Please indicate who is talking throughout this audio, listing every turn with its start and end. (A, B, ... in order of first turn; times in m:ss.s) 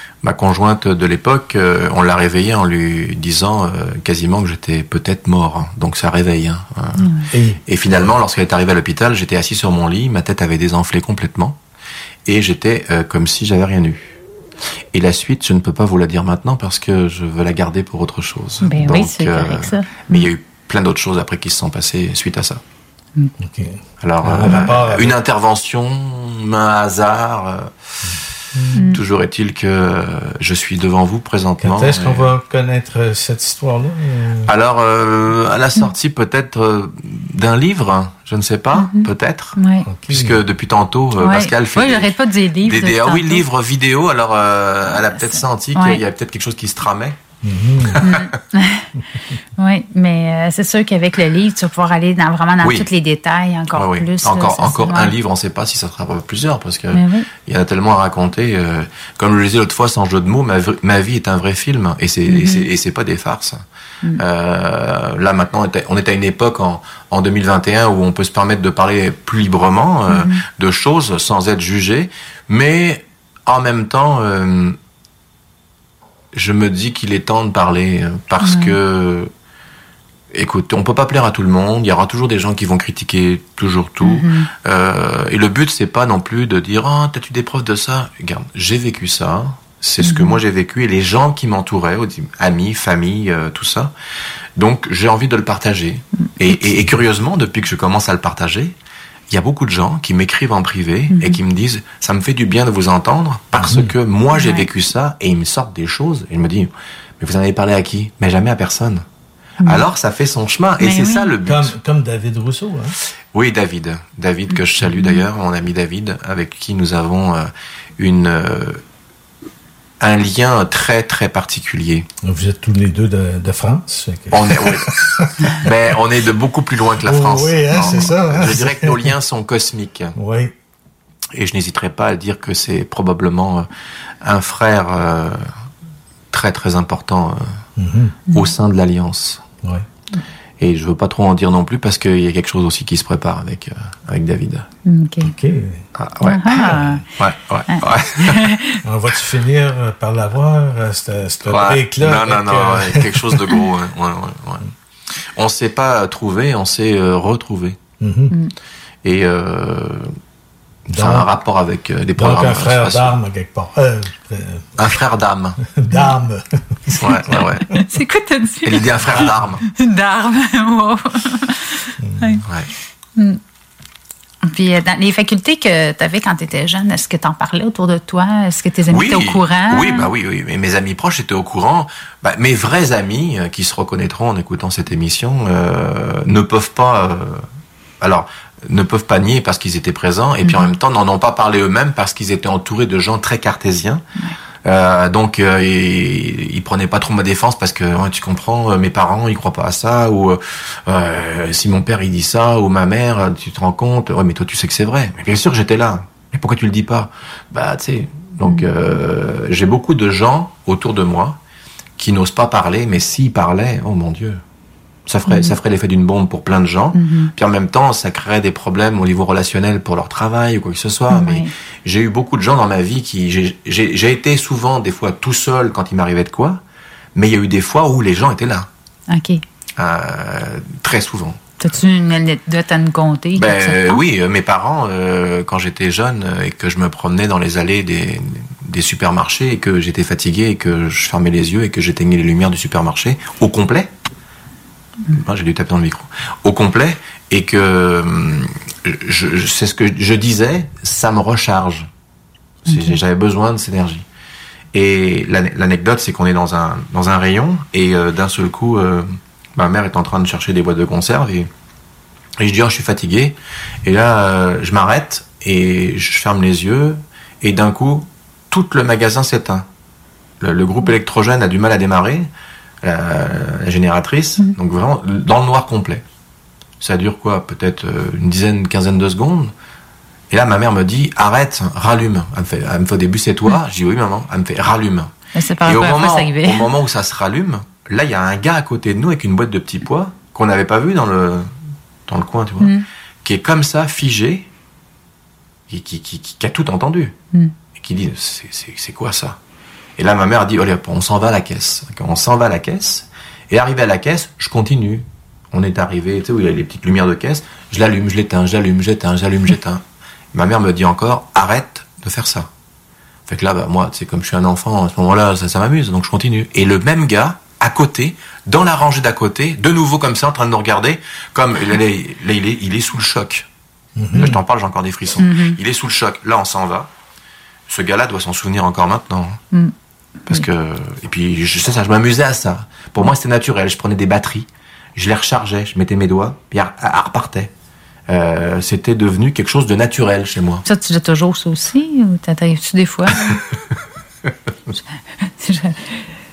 0:00.2-0:07.0 A
0:07.0-0:07.2 B
0:07.3-0:08.1 C
0:07.7-0:11.6 A
0:12.3-0:14.2 A
0:14.9-0:22.6 A
0:18.6-0:20.3 B
0:23.4-0:25.2 C
0:24.0-0:27.7 A
0:28.0-0:28.8 C
0:28.8-0:32.3 A
0:31.6-0:34.5 C
0:34.5-0:39.6 A
0:38.8-0:39.9 B
0:39.9-0:40.4 C
0:40.1-0:42.1 A
0:41.2-0:43.4 B
0:42.6-0:47.2 A
0:44.9-0:46.0 B
0:47.4-0:48.0 C
0:47.9-0:48.3 A
0:48.0-0:48.9 B
0:49.6-0:55.1 B
0:52.6-0:52.9 A
0:53.7-1:03.6 A
0:56.9-0:57.3 B
1:02.3-1:02.7 B
1:04.2-1:14.8 A
1:10.1-1:10.4 B
1:16.3-1:19.3 A
1:18.4-1:18.8 B
1:20.3-1:33.9 A
1:24.0-1:24.5 B
1:30.0-1:30.4 B
1:34.6-1:38.8 A
1:39.3-1:49.0 A
1:41.1-1:41.4 B
1:43.6-1:44.0 C
1:44.3-1:44.7 B
1:49.6-1:51.7 A
1:50.8-1:51.3 B
1:51.5-1:53.0 C
1:53.3-1:58.8 A
1:55.0-1:55.2 B
2:00.0-2:02.1 A
2:02.2-2:05.5 C
2:04.3-2:05.0 A
2:05.6-2:10.1 A
2:07.0-2:09.1 C
2:10.2-2:10.5 C
2:11.3-2:13.7 A
2:14.2-2:15.4 A
2:16.3-2:17.5 A
2:17.8-2:18.2 C
2:18.3-2:19.4 A
2:20.6-2:24.7 A
2:24.8-2:25.3 B
2:25.2-2:25.8 C
2:26.0-2:28.5 A
2:26.2-2:27.0 B
2:27.7-2:28.8 B
2:28.8-2:33.4 C
2:31.5-2:34.6 A
2:35.4-2:37.8 A
2:38.0-2:38.4 C
2:39.0-2:40.1 A
2:40.9-2:41.3 C
2:40.9-2:43.1 A
2:42.2-2:44.7 C
2:44.8-2:45.6 A
2:45.6-2:47.5 C
2:47.0-2:47.7 A
2:47.4-2:52.4 B
2:48.6-2:49.6 A
2:49.1-2:49.5 C
2:52.0-2:52.4 C
2:54.4-3:00.1 B
2:58.9-3:07.4 A
3:08.0-3:14.0 A
3:10.4-3:10.7 B
3:14.6-3:31.4 A
3:32.0-3:34.4 A
3:35.1-3:46.6 A
3:35.3-3:35.6 B
3:37.0-3:37.3 B
3:41.1-3:41.5 B
3:47.2-3:48.7 A
3:49.1-3:49.4 B
3:49.8-3:51.4 A
3:51.6-3:54.0 B
3:53.4-4:03.9 A
4:05.1-4:11.9 A
4:12.7-4:14.0 A
4:12.7-4:13.0 B
4:14.7-4:21.5 A
4:22.4-4:29.7 A
4:30.4-4:32.3 A
4:32.8-4:36.0 A
4:36.8-4:39.5 A
4:40.3-4:45.1 A
4:45.3-4:46.7 B
4:45.6-4:51.5 A
4:52.1-4:52.7 A
4:53.2-4:54.5 A
4:55.7-4:57.2 A
4:57.8-4:59.4 A
5:00.0-5:09.8 A
5:10.3-5:12.5 A
5:13.3-5:23.5 A
5:24.0-5:24.4 C
5:24.2-5:26.9 A
5:25.2-5:25.6 B
5:27.7-5:29.4 A
5:30.3-5:37.5 A
5:38.1-5:40.6 A
5:40.6-5:43.3 B
5:45.3-5:46.0 B